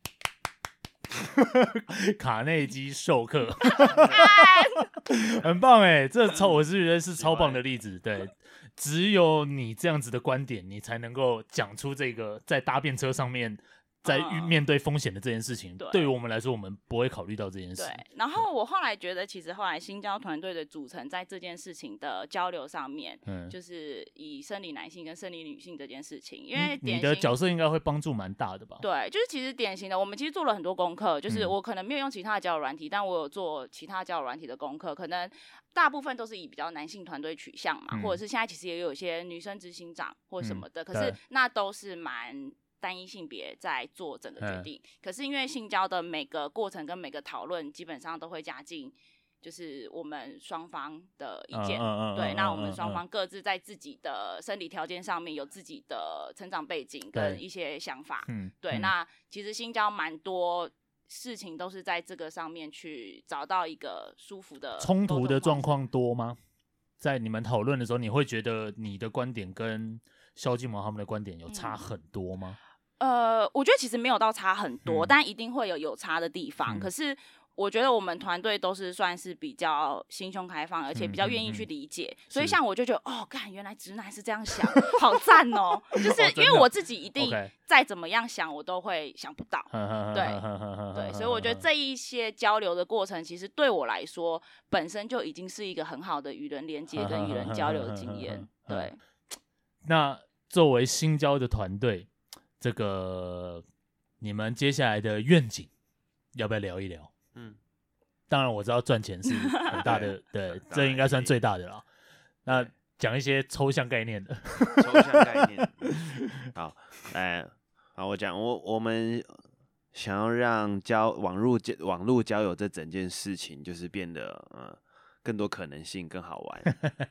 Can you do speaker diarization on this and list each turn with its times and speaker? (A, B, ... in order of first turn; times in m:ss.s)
0:01.2-0:18.4 A
0:03.7-0:04.9 B
0:07.2-0:07.6 C
0:14.0-0:14.6 B
0:15.8-0:16.1 B
0:17.8-0:27.3 B
0:23.3-0:23.5 A
0:26.5-0:28.8 A
0:28.8-1:05.7 B
0:31.3-0:31.5 A
0:37.9-0:38.2 A
0:40.4-0:41.2 A
0:44.4-0:44.7 A
0:51.5-0:53.0 A
0:57.1-0:57.4 A
0:58.3-0:58.9 A
1:04.8-1:06.4 A
1:07.0-1:12.6 A
1:11.5-1:11.8 B
1:13.0-1:39.0 B
1:14.8-1:15.1 A
1:21.0-1:21.6 A
1:26.0-1:27.5 A
1:29.7-1:31.6 A
1:36.9-1:38.9 A
1:39.8-1:42.1 A
1:42.6-1:43.6 A
1:44.2-1:45.7 A
1:46.3-1:47.1 A
1:48.3-1:51.8 A
1:49.6-1:51.3 C
1:52.4-1:56.4 A
1:54.8-1:55.8 C
1:56.5-2:06.8 C